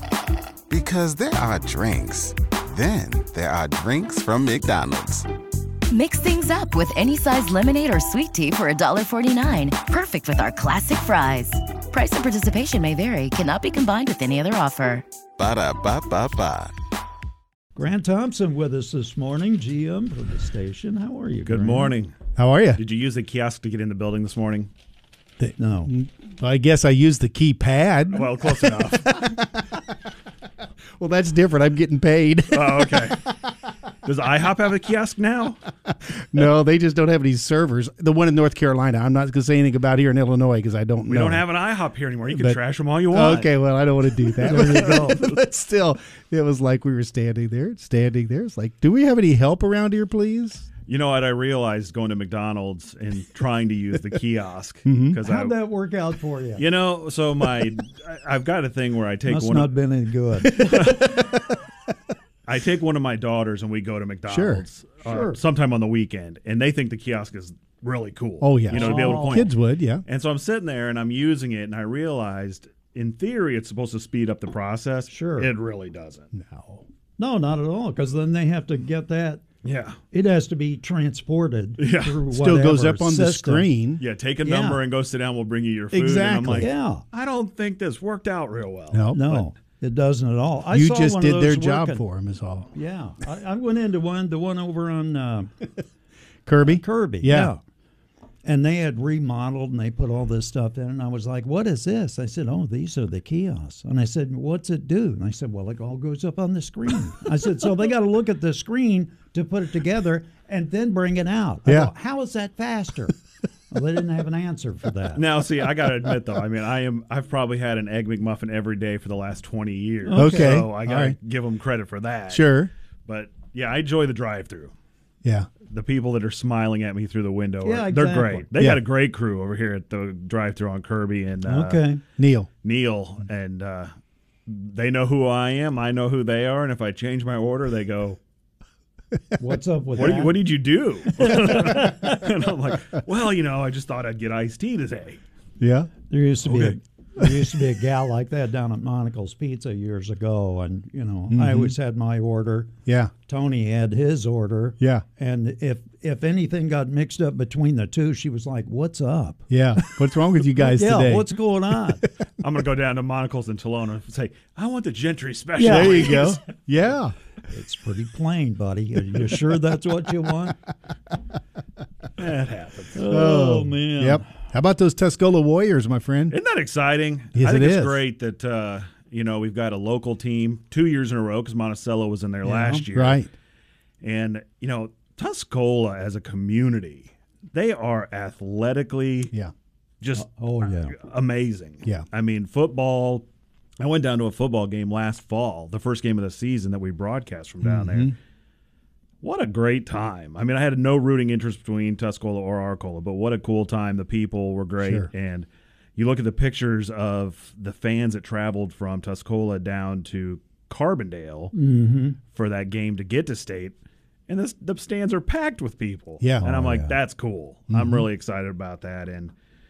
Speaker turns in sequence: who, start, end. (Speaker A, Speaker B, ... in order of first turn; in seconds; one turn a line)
Speaker A: 0.7-5.3
Speaker B: 5.9-15.1
Speaker A: 15.4-16.7
Speaker C: 17.8-21.9
Speaker D: 21.4-22.1
Speaker E: 22.4-22.8
Speaker D: 22.8-24.7
Speaker E: 25.4-29.8
Speaker C: 25.6-25.9
Speaker D: 28.1-29.3
Speaker E: 31.0-33.4
Speaker D: 32.5-33.2
Speaker D: 34.0-35.6
Speaker E: 35.9-41.5
Speaker D: 41.0-43.5
Speaker E: 42.3-50.7
Speaker D: 44.3-45.3
Speaker C: 44.5-45.2
Speaker D: 50.9-55.5
Speaker E: 54.9-55.2
Speaker C: 55.2-56.6
Speaker D: 56.6-59.7
Speaker C: 59.3-60.8
Speaker D: 60.4-61.4
Speaker D: 62.5-69.5
Speaker E: 64.3-64.7
Speaker C: 65.0-65.4
Speaker E: 68.4-70.0
Speaker C: 68.7-69.5
Speaker D: 70.1-76.3
Speaker C: 75.1-75.5
Speaker E: 76.3-76.8
Speaker C: 77.2-79.4
Speaker D: 79.6-80.0
Speaker C: 80.1-83.7
Speaker D: 81.8-82.2
Speaker E: 82.3-84.0
Speaker D: 84.0-89.5
Speaker C: 84.4-84.8
Speaker E: 85.9-86.7
Speaker C: 86.6-87.0
Speaker E: 88.9-89.3
Speaker C: 89.1-92.0
Speaker E: 90.7-92.7
Speaker C: 92.7-95.7
Speaker E: 96.5-97.5
Speaker C: 96.7-97.6
Speaker C: 98.4-113.2
Speaker E: 111.7-111.9
Speaker C: 113.7-115.2
Speaker D: 115.2-122.5
Speaker C: 120.0-120.5
Speaker E: 120.1-121.2
Speaker E: 122.3-122.7
Speaker D: 123.1-124.7
Speaker E: 125.2-125.5
Speaker D: 125.7-131.8
Speaker C: 127.6-128.5
Speaker C: 131.4-132.0
Speaker E: 132.2-132.5
Speaker D: 132.6-133.9
Speaker D: 134.5-138.2
Speaker C: 139.4-140.4
Speaker D: 139.9-145.2
Speaker E: 145.6-145.9
Speaker C: 146.1-152.7
Speaker D: 146.4-146.8
Speaker E: 151.3-151.8
Speaker E: 152.9-153.1
Speaker C: 153.3-159.9
Speaker E: 154.8-155.1
Speaker E: 159.5-161.3
Speaker C: 160.6-162.0
Speaker D: 162.4-166.4
Speaker C: 165.6-166.4
Speaker E: 165.6-167.1
Speaker C: 167.5-170.6
Speaker D: 172.2-173.0
Speaker C: 172.9-174.2
Speaker E: 173.1-176.4
Speaker D: 176.3-183.3
Speaker E: 177.3-178.0
Speaker C: 182.4-182.9
Speaker E: 182.9-183.3
Speaker D: 184.0-189.3
Speaker D: 190.0-193.3
Speaker C: 190.2-191.0
Speaker D: 193.8-198.2
Speaker E: 197.6-198.2
Speaker D: 199.2-211.5
Speaker E: 204.8-205.1
Speaker C: 211.5-212.2
Speaker D: 212.3-213.8
Speaker D: 214.3-219.3
Speaker E: 216.2-216.5
Speaker C: 216.4-217.0
Speaker E: 217.7-218.1